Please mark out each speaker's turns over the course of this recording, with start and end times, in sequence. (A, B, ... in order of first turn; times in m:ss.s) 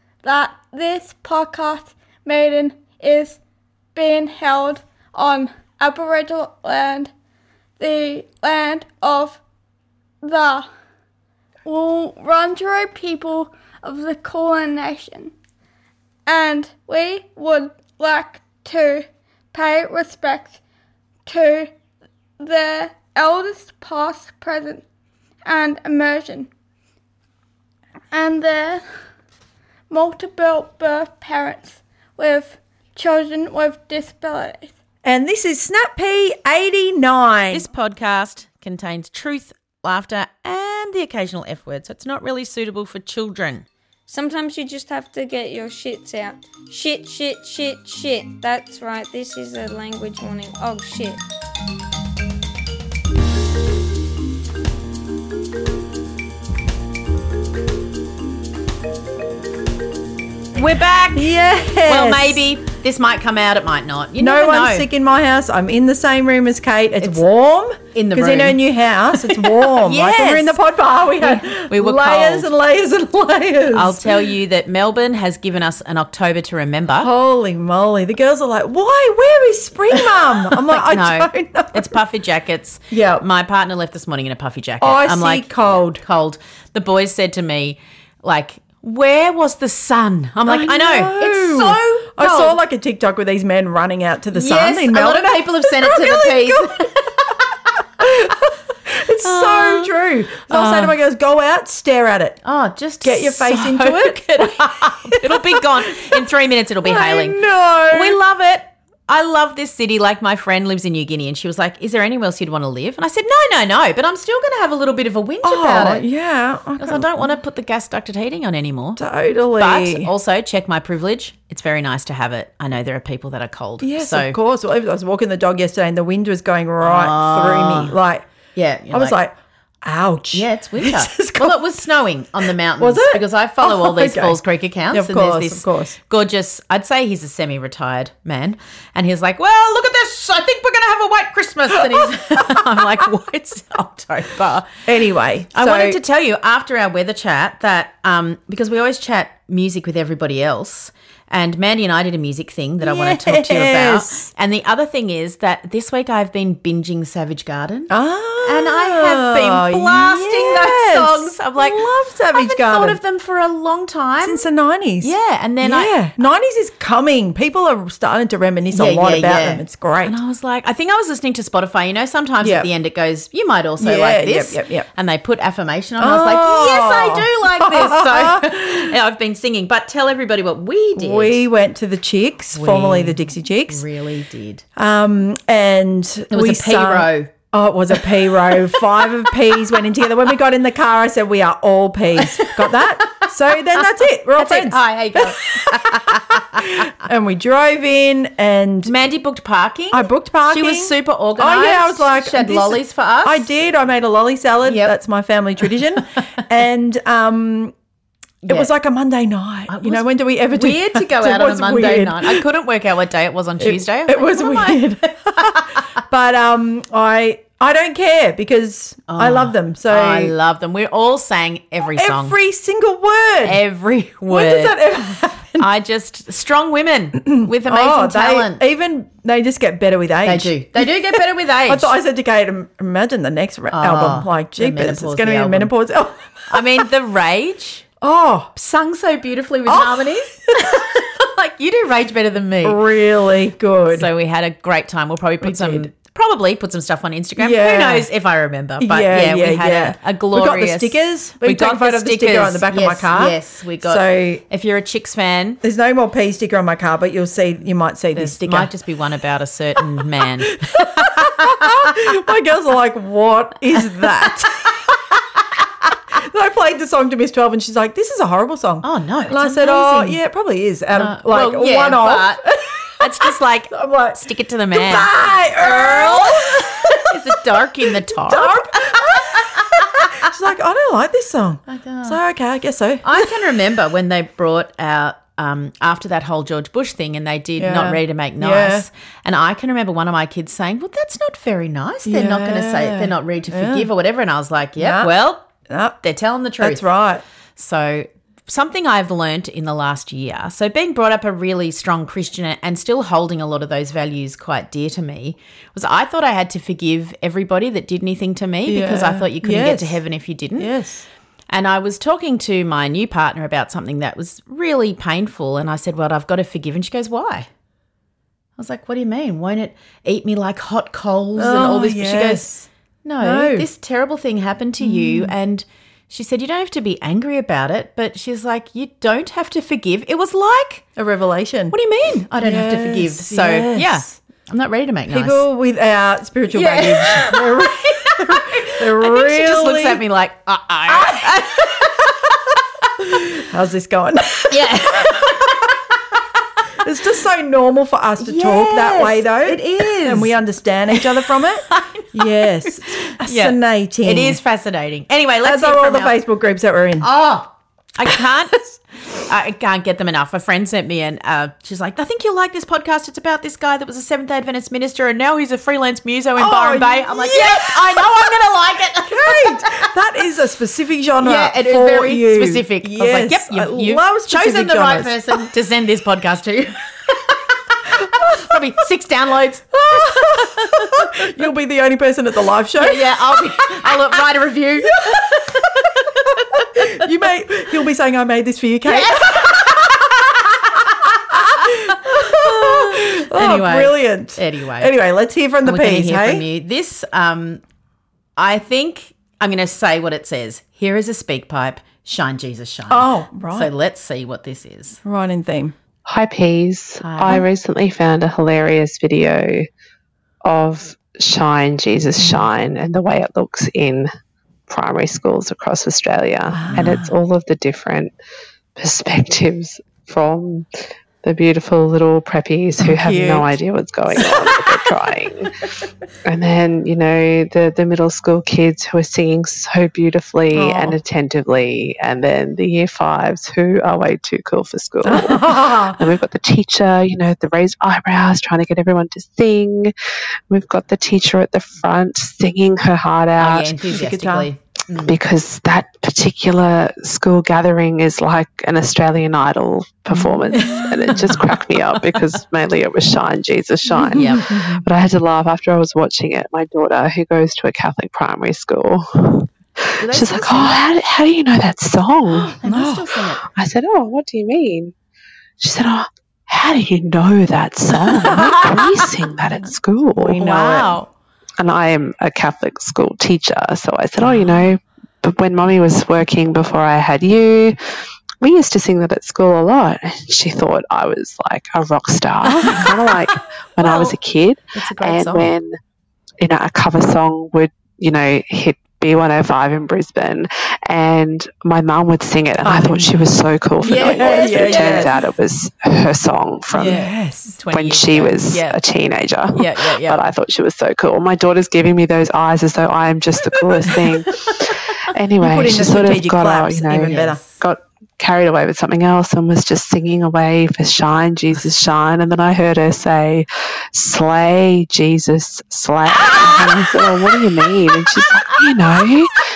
0:00.2-0:03.4 A
0:04.0-0:07.1 A
0:07.8-0:09.4 A
0:10.2-0:10.7 A
0:11.6-0:15.3 A
0:16.3-0:20.6 A
0:21.3-0:21.7 A
0:22.4-0:24.8 A
0:25.4-0:26.5 A
0:28.1-0:28.9 A
0:29.9-0:34.7 A
0:35.0-0:37.7 B
0:37.5-0:43.7 C
0:44.1-0:51.2 D
1:00.6-1:01.3 C
1:01.2-1:02.4 B
1:01.8-1:04.9 C
1:04.2-1:14.2 B
1:07.0-1:07.2 C
1:07.9-1:08.6 C
1:09.2-1:10.6 C
1:11.2-1:12.5 C
1:13.7-1:17.1 C
1:17.0-1:21.9 B
1:20.5-1:32.6 C
1:22.9-1:23.2 B
1:24.8-1:26.0 B
1:30.5-1:36.9 B
1:34.3-1:37.3 C
1:38.0-1:42.4 B
1:39.2-1:39.9 C
1:40.5-1:41.0 C
1:42.4-1:56.0 C
1:43.0-1:46.2 B
1:46.8-1:48.2 B
1:55.4-1:57.3 B
1:56.8-1:59.0 C
1:59.0-2:00.1 B
1:59.6-2:04.4 C
2:03.8-2:08.2 B
2:06.8-2:08.0 C
2:08.6-2:09.2 C
2:08.9-2:09.3 B
2:09.8-2:11.7 B
2:10.3-2:24.7 C
2:12.8-2:16.0 B
2:24.9-2:26.0 B
2:25.5-2:44.5 C
2:32.8-2:34.3 B
2:37.9-2:43.0 B
2:44.2-2:50.2 B
2:45.0-2:46.0 C
2:48.7-3:01.5 C
2:52.4-2:52.7 B
2:53.8-2:54.9 B
2:56.0-2:58.9 B
3:01.0-3:03.8 B
3:02.5-3:04.6 C
3:04.8-3:18.9 B
3:06.3-3:07.3 C
3:12.3-3:13.3 C
3:13.8-3:16.7 C
3:18.9-3:23.5 C
3:19.9-3:27.7 B
3:24.6-3:25.0 C
3:28.4-3:28.7 C
3:28.5-3:32.4 B
3:29.7-3:35.6 C
3:33.6-3:40.3 B
3:39.1-3:42.4 C
3:41.9-3:43.6 B
3:43.4-3:44.8 C
3:44.3-3:45.7 B
3:45.6-3:48.6 C
3:47.2-3:56.6 B
3:50.2-3:51.9 C
3:53.7-3:55.7 C
3:56.5-3:57.8 C
3:58.0-3:58.5 B
3:58.6-4:02.8 C
3:59.7-4:00.3 B
4:02.6-4:04.1 B
4:03.9-4:15.6 C
4:05.4-4:05.9 B
4:07.4-4:08.1 B
4:08.8-4:14.4 B
4:15.6-4:18.7 B
4:18.2-4:21.7 C
4:20.8-4:24.8 B
4:23.8-4:24.7 C
4:26.2-4:37.0 B
4:28.8-4:30.2 C
4:31.0-4:32.4 C
4:33.0-4:39.8 C
4:38.2-4:43.3 B
4:41.7-4:42.2 C
4:43.0-4:56.9 C
4:47.6-4:48.8 B
4:52.1-4:53.9 B
4:54.8-4:56.0 B
4:56.6-4:57.2 B
4:57.6-5:10.7 C
5:08.7-5:10.0 B
5:10.6-5:11.1 B
5:11.5-5:17.5 C
5:18.6-5:31.0 C
5:21.4-5:22.7 B
5:23.2-5:23.7 B
5:24.8-5:25.3 B
5:31.0-5:31.7 B
5:31.7-5:35.4 C
5:32.4-5:34.2 B
5:35.1-5:40.0 B
5:36.5-5:42.1 C
5:40.9-5:41.3 B
5:43.4-5:45.4 B
5:44.5-5:45.4 C
5:46.8-5:54.4 B
5:48.2-5:50.4 C
5:51.0-5:56.2 C
5:55.4-5:57.1 B
5:57.0-6:09.9 C
6:06.4-6:08.2 B
6:09.1-6:15.4 B
6:11.2-6:17.4 C
6:18.2-6:18.4 B
6:18.3-6:19.8 C
6:19.8-6:24.0 B
6:20.6-6:21.0 C
6:22.8-6:26.6 C
6:26.6-6:30.2 B
6:28.9-6:29.9 C
6:31.3-6:36.4 B
6:31.6-6:34.9 C
6:35.6-6:37.6 C
6:38.4-6:45.0 C
6:42.9-6:43.7 B
6:45.0-6:45.8 B
6:46.1-6:49.7 E
6:47.0-6:47.4 C
6:50.4-6:54.1 E
6:54.7-6:58.1 E
6:56.5-6:57.1 B
6:58.8-7:00.7 E
7:01.2-7:05.6 E
7:02.8-7:03.6 B
7:04.1-7:04.9 B
7:06.2-7:19.9 E
7:10.5-7:11.0 B
7:15.0-7:16.0 B
7:20.5-7:23.8 E
7:23.4-7:25.2 C
7:23.9-7:24.5 B
7:25.0-7:42.6 E
7:30.1-7:30.8 B
7:30.6-7:31.6 C
7:33.9-7:34.8 B
7:34.1-7:34.6 C
7:40.0-7:40.8 C
7:42.3-7:43.4 C
7:42.6-7:43.0 B
7:43.6-7:44.9 E
7:45.6-7:50.5 E
7:48.2-7:48.7 C
7:50.1-7:51.0 B
7:50.4-7:51.1 C
7:51.6-7:57.8 E
7:58.4-8:05.8 E
8:03.8-8:04.2 C
8:04.8-8:05.5 C
8:06.4-8:17.1 E
8:12.6-8:13.2 B
8:13.8-8:15.1 C
8:13.8-8:15.1 B
8:16.7-8:18.8 C
8:16.8-8:17.6 B
8:17.7-8:39.3 E
8:19.5-8:20.2 C
8:23.9-8:24.6 C
8:25.4-8:27.4 B
8:27.1-8:27.6 C
8:36.3-8:37.1 C